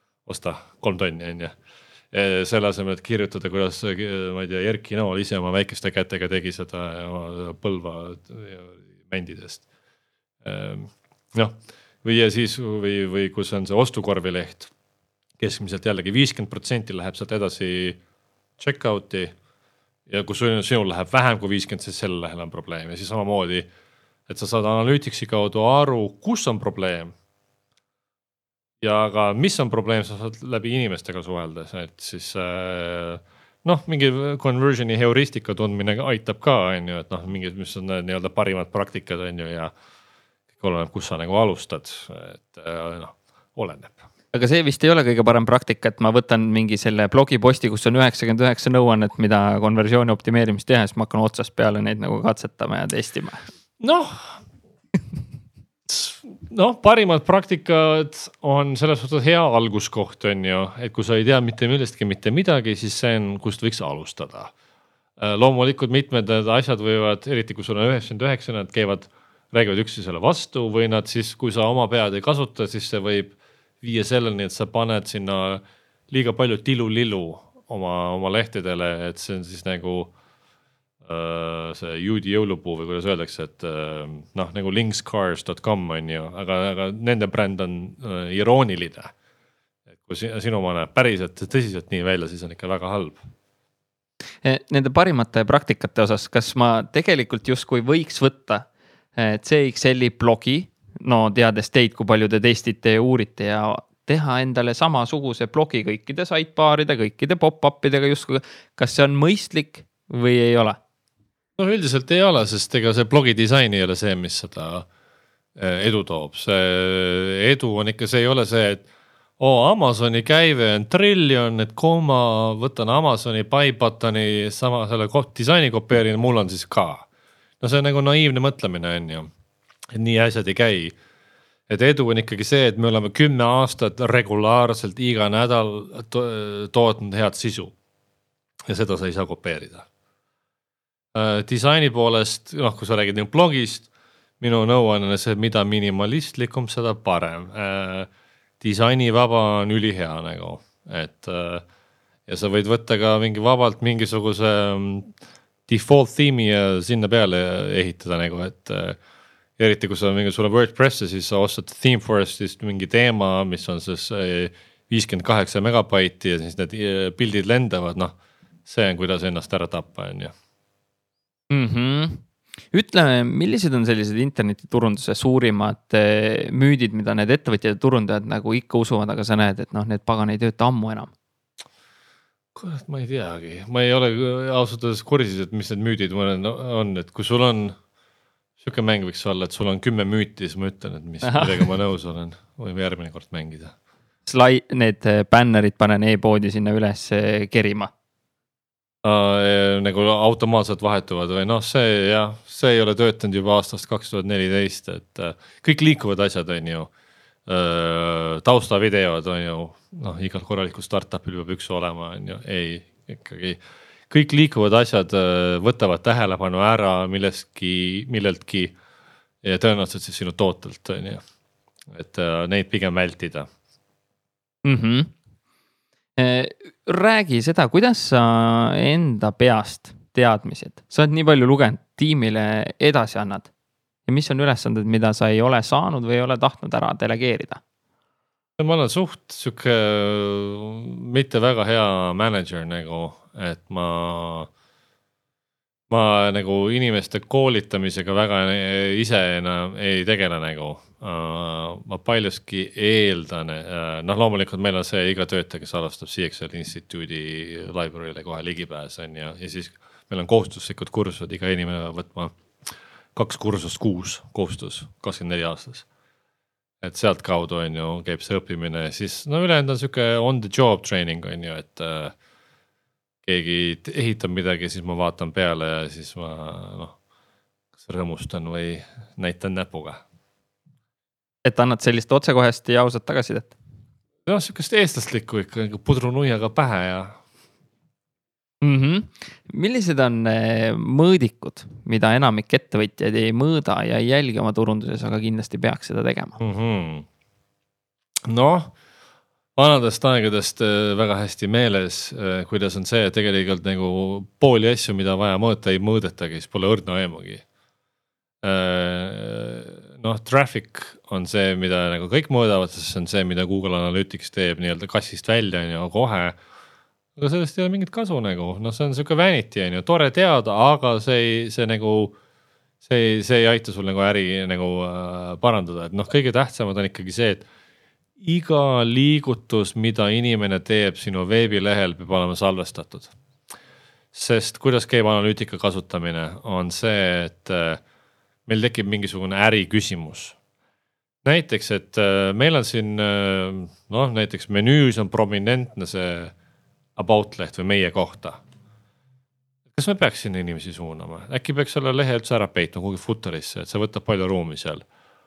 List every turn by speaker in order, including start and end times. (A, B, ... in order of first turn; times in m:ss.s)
0:00.2-0:01.5 A
0:02.1-0:09.6 A
0:10.4-0:14.7 A
0:15.4-0:18.0 A
0:18.6-0:19.3 A
0:20.1-0:23.7 A
0:24.3-0:27.1 A
0:28.8-0:39.7 A
0:40.5-0:44.0 A
0:44.3-0:53.4 B
0:53.8-0:54.4 A
0:55.9-1:04.5 A
1:05.2-1:20.1 A
1:21.0-1:29.1 A
1:30.0-1:33.2 A
1:34.4-1:50.8 B
1:51.6-1:54.8 A
1:55.6-1:58.9 A
1:59.4-2:07.1 A
2:07.6-2:09.3 A
2:09.9-2:10.9 A
2:11.7-2:17.7 A
2:18.7-2:19.8 A
2:21.1-2:23.9 A
2:24.4-2:28.1 A
2:28.6-2:31.6 A
2:32.3-2:35.1 A
2:35.7-2:39.0 A
2:39.6-2:48.1 A
2:48.6-2:50.3 A
2:51.5-3:01.1 B
3:02.5-3:07.7 A
3:08.6-3:13.7 A
3:11.2-3:11.6 B
3:14.2-3:17.9 B
3:19.0-3:26.9 A
3:27.5-3:38.8 A
3:39.4-3:41.2 A
3:41.9-3:43.5 A
3:44.6-3:45.1 B
3:46.2-3:53.5 B
3:54.1-3:57.6 B
3:58.6-4:04.5 A
4:05.9-4:22.3 A
4:23.1-4:25.8 A
4:26.8-4:32.1 A
4:33.2-4:37.0 A
4:37.8-4:40.0 A
4:41.4-4:43.5 B
4:44.2-4:47.2 A
4:48.6-4:56.4 B
4:56.4-4:57.0 A
4:58.2-4:58.7 A
4:59.6-5:07.4 A
5:08.4-5:16.4 A
5:17.2-5:22.2 A
5:22.8-5:27.4 A
5:28.2-5:33.1 A
5:34.1-5:37.8 A
5:38.5-5:40.4 A
5:41.2-5:46.3 A
5:47.0-5:48.4 A
5:49.7-5:54.8 A